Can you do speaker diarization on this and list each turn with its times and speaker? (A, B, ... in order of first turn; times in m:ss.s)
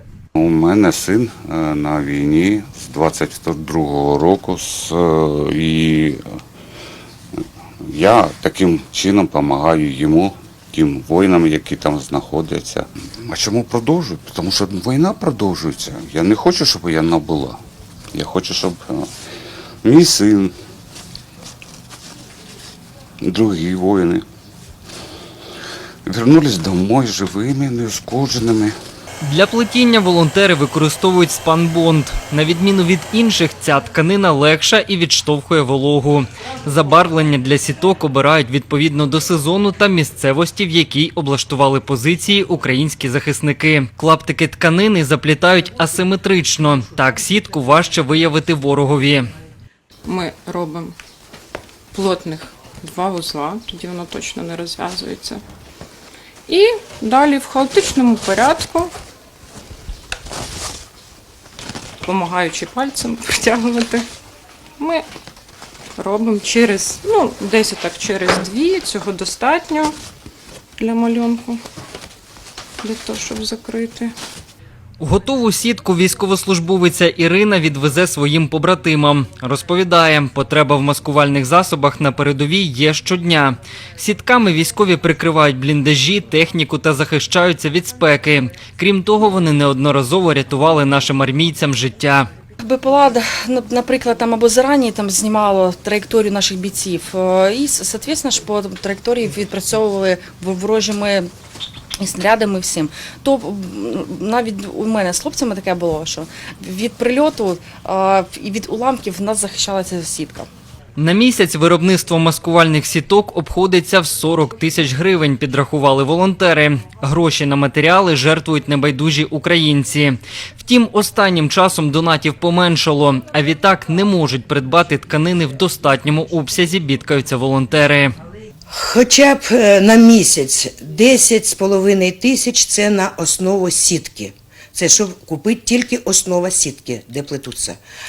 0:00.4-0:06.2 A
0:07.8-0:17.6 A
0:18.1-0:19.1 A
0:19.8-0:20.5 A
0:23.2-0:24.2 A
0:26.0-0:28.7 A
0:29.2-0:49.3 B
0:50.0-0:51.0 C
0:51.9-0:55.4 C
0:56.5-0:58.9 C
1:02.0-1:04.0 C
1:04.8-1:05.0 C
1:06.0-1:09.9 C
1:10.8-1:11.6 C
1:12.8-1:14.1 C
1:15.0-1:32.3 B
1:32.6-1:41.3 D
1:42.0-1:50.5 D
1:51.0-2:08.1 B
2:08.7-2:17.8 E